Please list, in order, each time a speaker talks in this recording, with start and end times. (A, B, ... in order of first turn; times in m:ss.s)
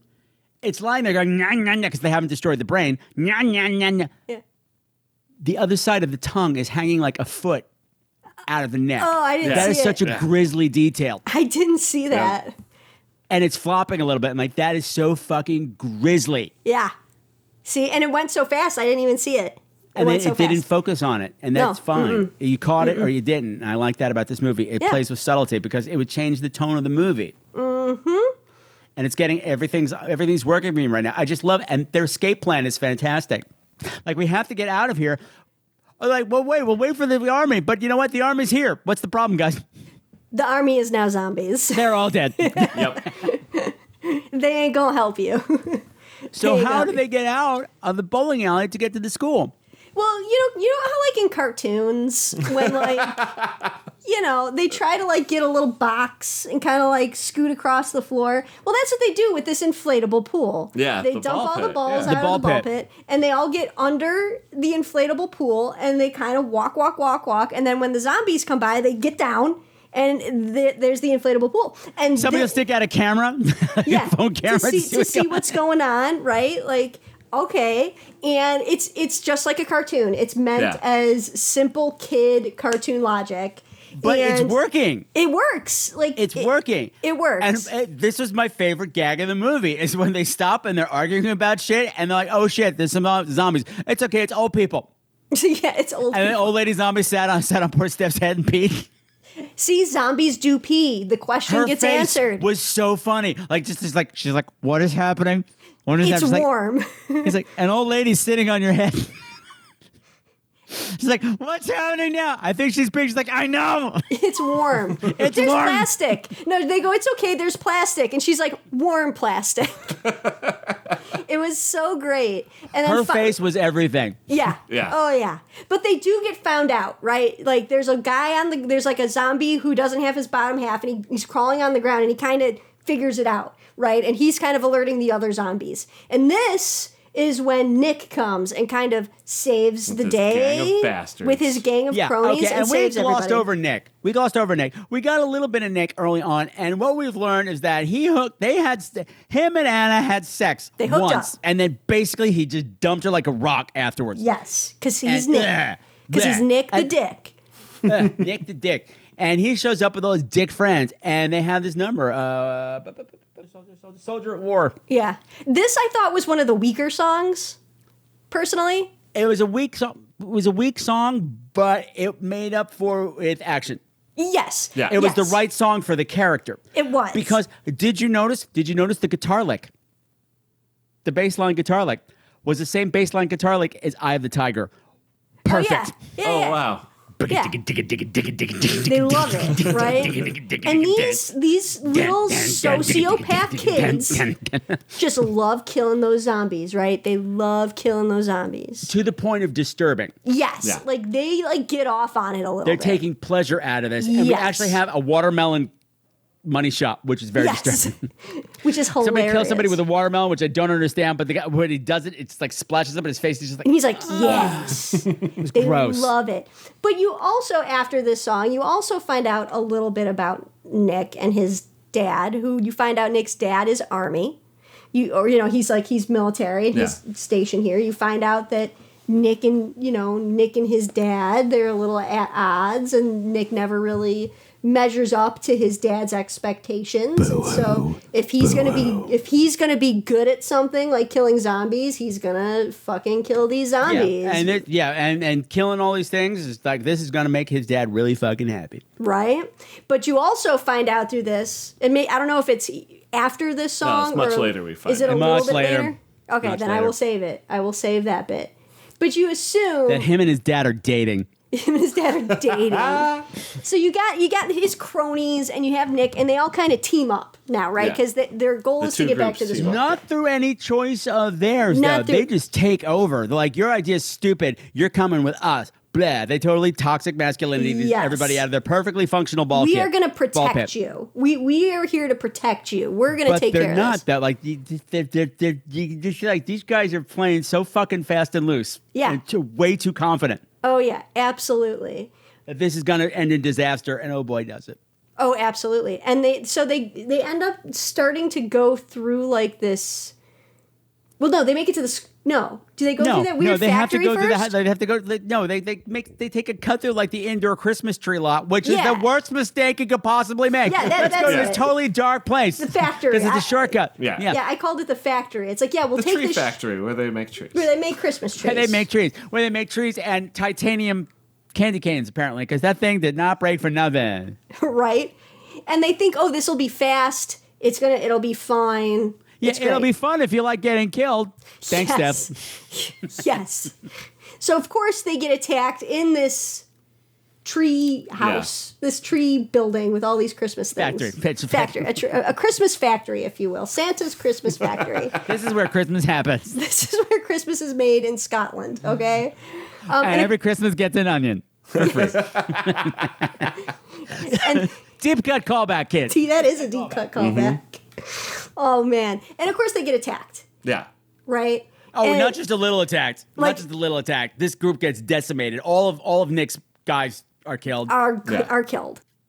0:00.6-0:04.1 A
0:05.4-0:07.7 A
0:08.4-0:11.2 A
0:09.0-0:10.0 B
0:09.4-0:10.2 C
0:11.3-0:12.5 B
0:13.3-0:16.5 A
0:16.6-0:16.9 B
0:17.6-0:20.6 B
0:20.0-0:27.3 A
0:21.5-0:22.3 B
0:22.8-0:23.1 B
0:27.6-0:28.3 B
0:29.0-0:33.4 A
0:34.0-0:35.2 A
0:36.0-0:39.6 A
0:40.3-0:41.9 B
0:41.7-0:42.9 A
0:42.4-0:47.0 B
0:42.7-0:43.0 C
0:46.4-0:49.5 A
0:50.0-0:53.3 B
0:52.8-0:53.5 C
0:54.0-1:12.6 B
1:00.7-1:02.1 C
1:02.0-1:02.7 A
1:12.2-1:15.6 A
1:13.9-1:24.6 B
1:24.0-1:25.0 A
1:25.1-1:27.7 B
1:26.2-1:34.9 A
1:35.3-1:36.4 B
1:36.1-1:38.9 A
1:39.6-1:42.4 B
1:41.5-1:46.5 A
1:46.0-1:47.3 B
1:47.2-1:49.2 A
1:50.7-1:54.2 A
1:54.1-2:00.0 B
1:54.8-1:55.9 A
2:00.0-2:00.7 C
2:01.1-2:03.4 B
2:02.8-2:04.2 A
2:04.3-2:23.4 B
2:04.7-2:05.0 C
2:19.9-2:21.6 C
2:21.9-2:34.2 A
2:30.8-2:31.3 B
2:34.2-2:35.6 B
2:35.0-2:36.9 A
2:36.1-2:37.3 B
2:37.8-2:44.8 A
2:44.9-2:47.6 B
2:48.3-2:48.9 B
2:49.1-2:53.8 A
2:54.2-2:55.4 B
2:54.9-2:56.6 A
2:56.7-2:57.4 B
2:57.1-2:59.7 A
3:01.0-3:04.7 A
3:05.4-3:06.7 B
3:05.5-3:06.0 A
3:06.2-3:06.8 C
3:07.2-3:11.2 A
3:07.3-3:07.6 B
3:08.9-3:14.3 B
3:11.9-3:14.9 A
3:15.0-3:18.9 B
3:18.9-3:20.1 A
3:20.3-3:23.0 B
3:22.6-3:25.7 A
3:24.0-3:24.8 B
3:26.4-3:28.0 A
3:27.4-3:29.8 B
3:29.0-3:36.1 A
3:33.6-3:44.4 B
3:44.9-4:04.6 B
3:57.2-3:59.1 A
4:03.8-4:08.8 A
4:09.0-4:20.1 B
4:13.8-4:15.6 C
4:15.0-4:15.9 A
4:16.4-4:16.9 C
4:19.9-4:21.3 A
4:21.5-4:29.8 B
4:22.7-4:23.3 C
4:28.8-4:29.9 C
4:29.6-4:40.7 A
4:31.7-4:32.3 B
4:37.6-4:38.4 B
4:39.5-4:44.0 B
4:43.2-4:50.4 A
4:48.9-4:49.2 B
4:50.6-4:52.1 B
4:52.4-4:54.8 A
4:55.2-5:00.1 B
5:01.2-5:04.5 B
5:03.0-5:14.4 A
5:08.6-5:09.1 B
5:10.6-5:11.7 B
5:11.2-5:11.6 C
5:12.6-5:13.8 B
5:14.0-5:14.3 C
5:14.3-5:16.6 B
5:16.0-5:17.7 C
5:17.5-5:18.8 B
5:18.4-5:24.4 A
5:24.5-5:29.9 B
5:29.4-5:32.4 A
5:31.6-5:33.7 B
5:34.4-5:36.6 B
5:37.4-5:45.2 B
5:38.2-5:38.5 C
5:40.8-5:41.9 A
5:45.2-5:46.6 A
5:46.5-5:50.3 B
5:49.9-5:53.4 A
5:51.8-5:53.1 C
5:51.8-5:52.1 B
5:54.1-5:54.8 B
5:54.2-5:57.1 A
5:56.1-6:00.4 B
5:57.2-5:57.6 C
6:01.3-6:02.4 B
6:02.0-6:07.9 A
6:03.4-6:03.6 B
6:07.9-6:09.0 B